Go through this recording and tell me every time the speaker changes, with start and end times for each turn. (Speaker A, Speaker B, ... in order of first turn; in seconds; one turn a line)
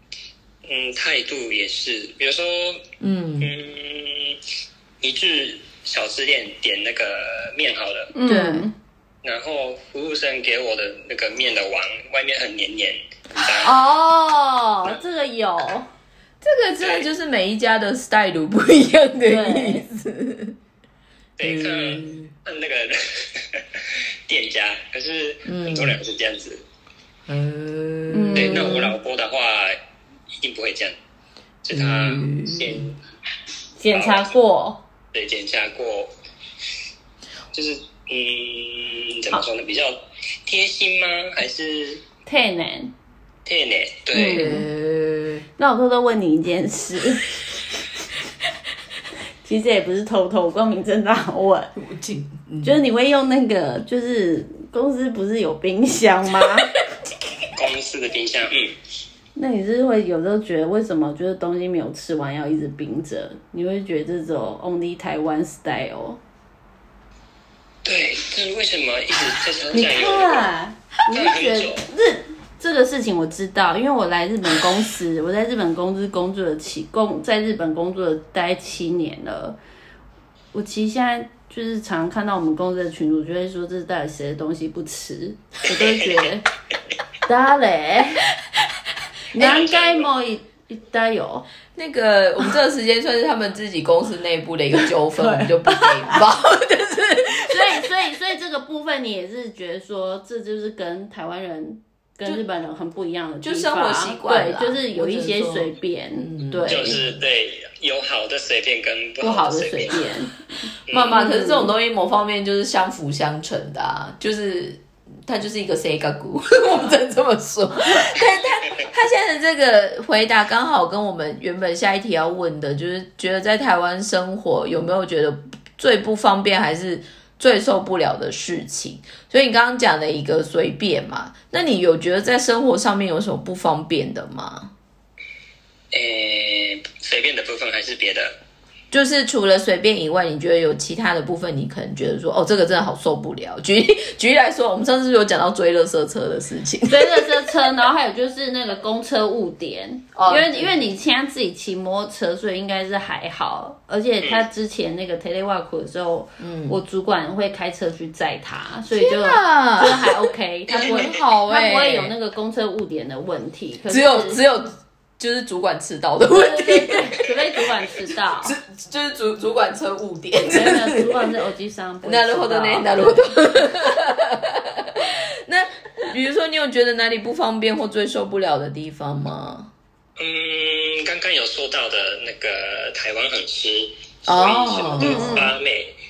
Speaker A: 0.6-2.9
Speaker B: 3.0-3.5
Speaker A: 3.4-4.4
Speaker A: 5.0-8.1
Speaker C: 8.1-8.7
Speaker B: 8.2-8.7
Speaker A: 9.2-13.7
Speaker C: 13.4-15.9
Speaker B: 16.4-20.6
Speaker A: 16.8-17.1
Speaker C: 19.2-19.8
Speaker A: 21.4-26.6
Speaker B: 21.4-22.3
Speaker B: 25.4-26.0
Speaker B: 27.3-28.9
Speaker C: 28.1-28.9
Speaker A: 28.3-29.8
Speaker A: 30.3-30.9
Speaker A: 31.6-33.0
Speaker B: 31.7-32.9
Speaker C: 33.8-34.8
Speaker A: 33.9-34.3
Speaker A: 35.1-36.1
Speaker A: 37.5-42.0
Speaker C: 42.2-42.9
Speaker A: 43.5-44.5
Speaker C: 44.1-44.6
Speaker B: 44.3-45.4
Speaker C: 45.6-47.3
Speaker C: 49.4-51.7
Speaker B: 51.8-52.8
Speaker C: 52.6-56.7
Speaker A: 57.4-58.8
Speaker C: 59.4-66.2
Speaker A: 67.8-70.5
Speaker C: 69.7-79.6
Speaker A: 71.1-71.9
Speaker C: 80.5-86.4
Speaker A: 85.7-86.3
Speaker C: 87.2-88.3
Speaker C: 89.3-91.5
Speaker A: 89.3-90.1
Speaker B: 91.8-97.9
Speaker C: 94.7-96.2
Speaker C: 97.5-107.0
Speaker B: 103.4-107.1
Speaker A: 106.7-110.1
Speaker C: 109.2-110.5
Speaker A: 110.9-111.2
Speaker B: 110.9-134.7
Speaker C: 111.1-111.7
Speaker A: 135.9-138.4
Speaker B: 138.9-147.7
Speaker C: 146.9-164.4
Speaker B: 150.1-150.9
Speaker A: 154.2-154.5
Speaker B: 156.4-156.8
Speaker B: 158.9-162.1
Speaker A: 160.7-161.1
Speaker B: 163.9-167.3
Speaker C: 166.3-168.6
Speaker B: 168.4-171.3
Speaker C: 170.5-173.2
Speaker B: 172.0-179.7
Speaker A: 180.2-185.9
Speaker B: 184.3-185.5
Speaker C: 185.0-185.5